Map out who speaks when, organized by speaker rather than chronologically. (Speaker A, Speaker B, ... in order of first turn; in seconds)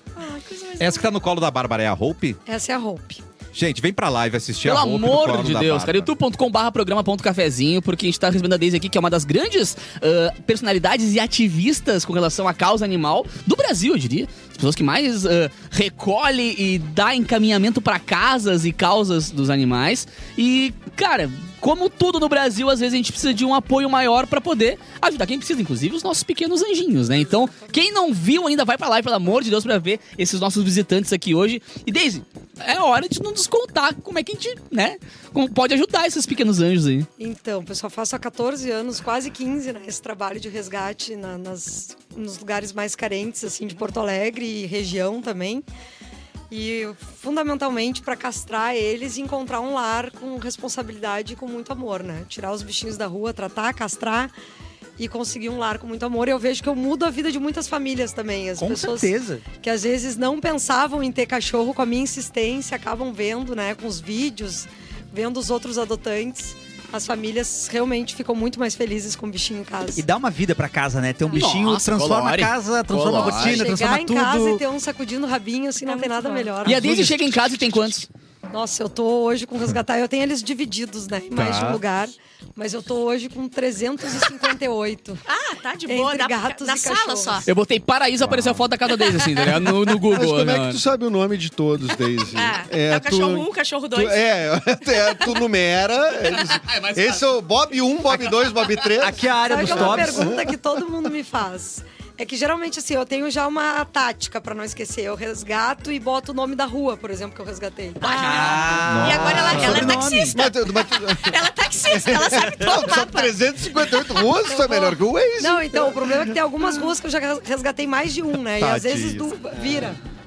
Speaker A: 0.2-1.1, 75.8-76.7, 85.3-87.5, 92.3-94.2, 94.9-95.4, 108.0-113.4
Speaker B: 0.8-2.4, 3.5-6.1, 81.3-81.8, 88.2-88.7, 108.8-110.0, 118.6-119.3
Speaker C: 2.5-3.2, 37.2-45.6, 46.5-54.3, 55.0-70.0, 73.1-77.0, 78.5-85.2, 85.9-87.5, 99.4-108.8, 114.5-120.0
Speaker D: 4.6-37.1, 71.3-73.7, 76.6-78.1, 87.5-90.8, 96.5-97.2, 98.3-98.8
Speaker E: 58.6-59.4, 70.0-74.6, 76.8-77.2, 99.0-100.3, 108.1-110.4
Speaker F: 90.0-100.6, 109.4-116.4